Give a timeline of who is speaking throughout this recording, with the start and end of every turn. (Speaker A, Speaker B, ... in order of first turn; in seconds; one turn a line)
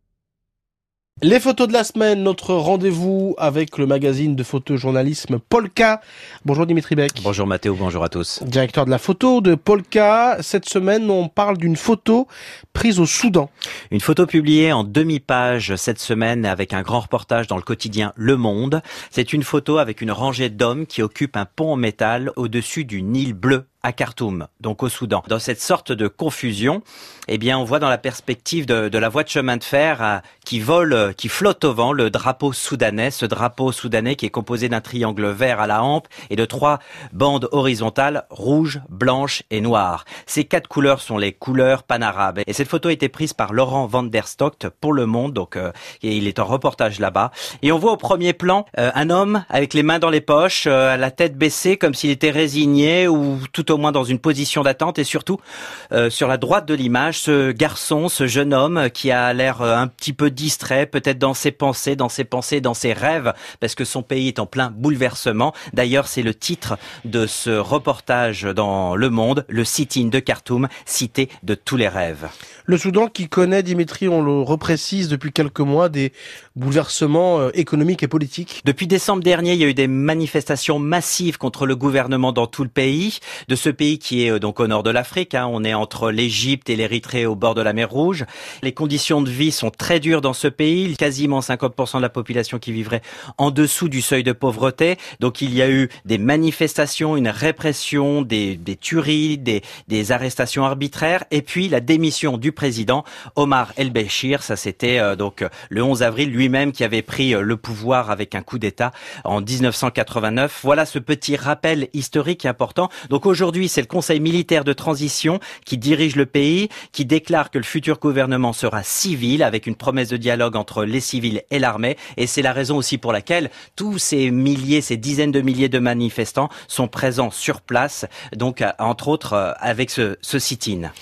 Speaker A: 1.2-7.3
Speaker B: 7.2-8.4
Speaker A: 8.4-13.5
Speaker B: 13.9-55.4
Speaker B: 55.9-72.3
Speaker A: 72.7-78.6
Speaker B: 78.6-130.9